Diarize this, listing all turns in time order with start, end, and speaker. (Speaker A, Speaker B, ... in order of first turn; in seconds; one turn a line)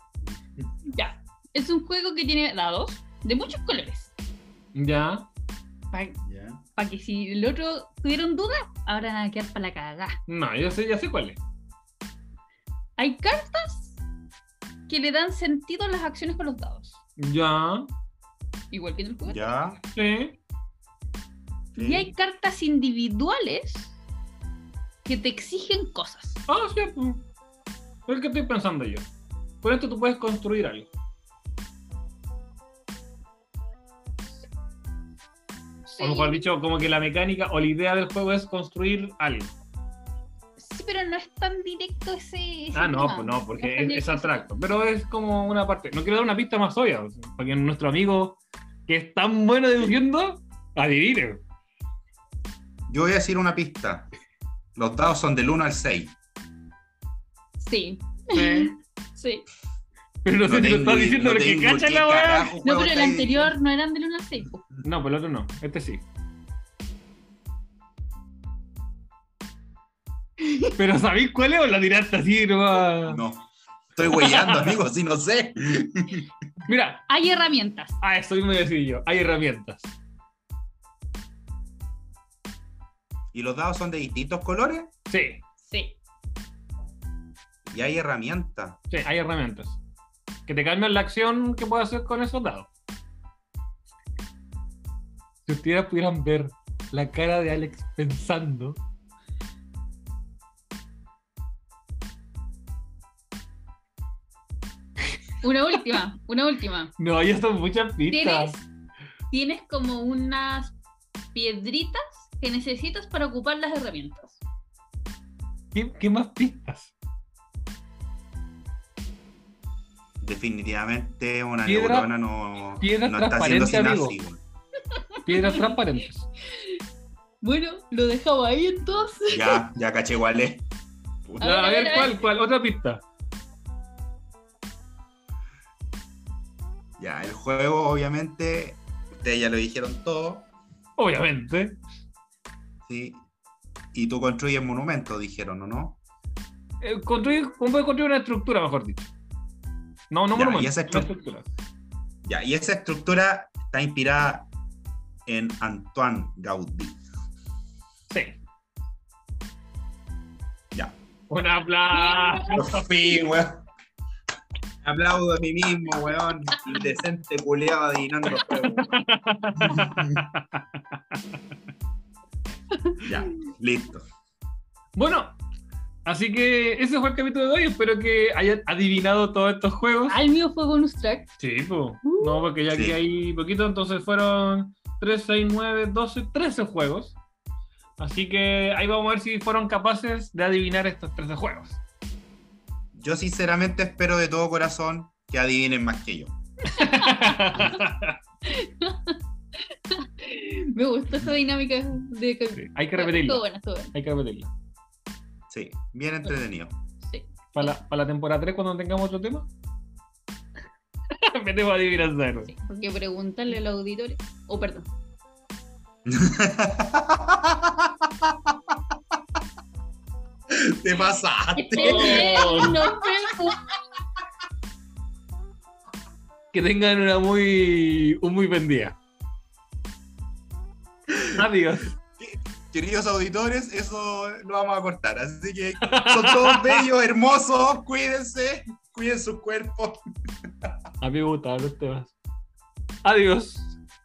Speaker A: 0.9-4.1
Speaker B: 4.7-5.3
Speaker A: 5.9-6.2
Speaker C: 6.2-6.6
Speaker A: 6.7-10.2
Speaker B: 10.3-11.4
Speaker A: 13.0-14.0
Speaker A: 14.9-17.0
Speaker B: 17.2-17.9
Speaker A: 18.7-19.5
Speaker C: 19.2-19.8
Speaker B: 19.9-20.4
Speaker C: 21.7-22.1
Speaker A: 21.8-24.0
Speaker A: 25.0-26.4
Speaker B: 26.5-27.2
Speaker B: 28.1-29.1
Speaker B: 29.6-30.9
Speaker A: 35.9-36.4
Speaker B: 36.0-39.5
Speaker A: 40.6-44.5
Speaker B: 42.7-51.4
Speaker C: 52.9-54.1
Speaker C: 54.7-56.1
Speaker A: 57.6-59.4
Speaker B: 58.3-58.7
Speaker B: 60.2-62.5
Speaker C: 60.5-63.5
Speaker A: 62.6-64.6
Speaker B: 64.8-66.0
Speaker A: 70.4-70.7
Speaker B: 70.8-73.2
Speaker C: 73.0-76.3
Speaker B: 76.7-77.0
Speaker A: 77.1-78.0
Speaker B: 78.0-79.9
Speaker C: 83.3-84.9
Speaker B: 85.1-85.4
Speaker A: 85.6-86.0
Speaker C: 87.7-88.8
Speaker B: 88.9-89.8
Speaker B: 90.5-92.7
Speaker B: 95.5-98.8
Speaker A: 105.4-106.9
Speaker B: 107.0-108.6
Speaker A: 108.1-108.7
Speaker A: 109.3-110.7
Speaker A: 111.3-114.4
Speaker B: 115.7-116.9
Speaker C: 120.2-124.4
Speaker B: 121.7-122.1
Speaker B: 122.8-124.2
Speaker A: 125.0-125.7
Speaker B: 125.2-126.3
Speaker A: 127.4-129.6
Speaker C: 129.3-130.6
Speaker C: 131.2-131.5
Speaker A: 131.4-132.2
Speaker B: 131.4-133.0
Speaker C: 137.0-140.5
Speaker B: 141.0-141.8
Speaker C: 142.9-143.2
Speaker C: 143.9-146.0
Speaker B: 146.8-149.1
Speaker B: 150.1-151.4
Speaker C: 150.3-151.1
Speaker C: 152.2-154.5
Speaker C: 155.3-157.0
Speaker B: 158.1-158.4
Speaker B: 161.3-162.8
Speaker A: 161.9-162.5
Speaker C: 162.5-163.6
Speaker C: 164.8-169.0
Speaker B: 168.5-171.0
Speaker C: 169.6-170.2
Speaker C: 173.0-174.0
Speaker B: 174.9-175.3
Speaker B: 176.0-180.2
Speaker A: 180.1-181.3
Speaker B: 181.4-187.2
Speaker A: 182.0-182.4
Speaker C: 182.7-183.0
Speaker B: 188.0-191.8
Speaker C: 192.9-196.3
Speaker A: 196.7-197.7
Speaker B: 196.8-198.2
Speaker A: 198.4-199.2
Speaker A: 199.9-203.9
Speaker B: 202.6-203.4
Speaker B: 203.9-204.5
Speaker C: 205.5-206.7
Speaker A: 207.0-207.7
Speaker B: 207.5-209.5
Speaker B: 211.1-212.5
Speaker A: 212.5-214.9
Speaker C: 216.1-218.5
Speaker C: 220.5-223.3
Speaker A: 221.6-223.6
Speaker B: 221.8-222.8
Speaker B: 226.5-229.0
Speaker B: 231.3-232.0
Speaker C: 232.2-240.0
Speaker B: 235.9-236.8
Speaker B: 241.0-242.1
Speaker B: 243.0-243.8